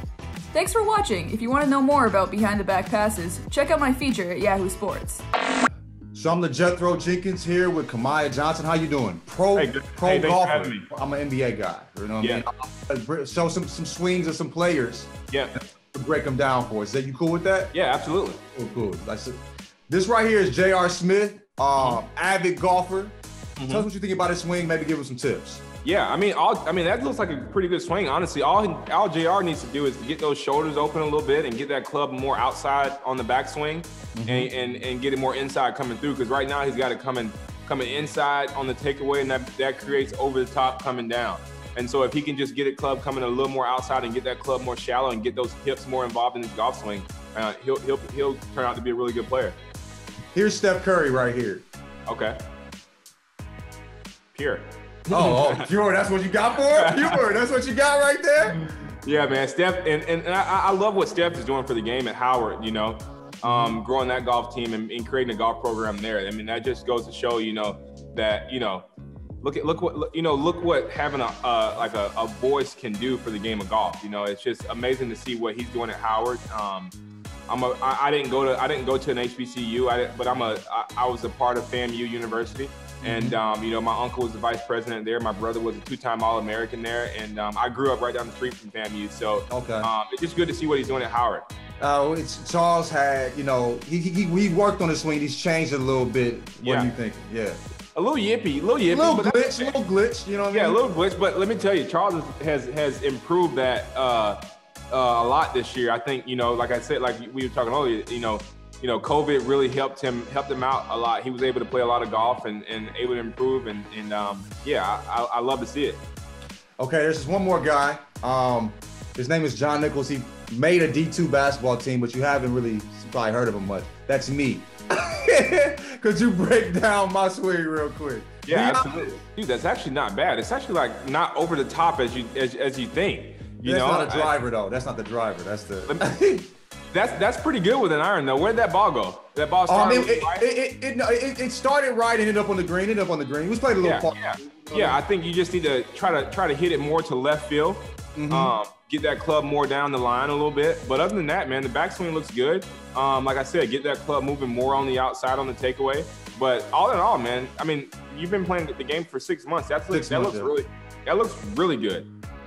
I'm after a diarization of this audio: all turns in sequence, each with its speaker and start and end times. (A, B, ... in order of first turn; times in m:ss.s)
0:00.5-0:05.2 A
0:06.1-0:15.1 B
0:09.5-0:10.9 C
0:12.2-0:12.4 C
0:15.8-0:17.7 B
0:17.7-0:18.4 C
0:18.5-0:19.4 B
0:19.9-0:23.2 B
0:21.8-0:22.0 C
0:23.6-0:23.9 C
0:23.7-0:25.6 B
0:25.8-0:49.6 C
0:34.2-0:34.5 B
0:50.3-0:51.6 B
0:52.1-0:52.4 C
0:54.3-0:55.7 C
0:55.1-0:58.6 B
0:56.6-0:57.2 C
0:59.0-1:08.8 C
1:03.4-1:03.8 B
1:09.4-1:16.9 C
1:17.5-1:31.4 C
1:23.0-1:23.4 B
1:29.5-1:29.9 B
1:31.8-1:37.6 B
1:36.6-1:36.9 C
1:37.9-1:39.7 C
1:38.9-1:40.8 B
1:40.5-1:44.4 C
1:44.9-1:56.0 C
1:56.8-2:09.2 B
2:08.4-2:14.4 C
2:13.6-2:16.5 B
2:16.9-2:20.4 C
2:19.7-2:25.0 B
2:23.8-2:42.1 C
2:28.1-2:28.6 B
2:39.9-2:40.5 B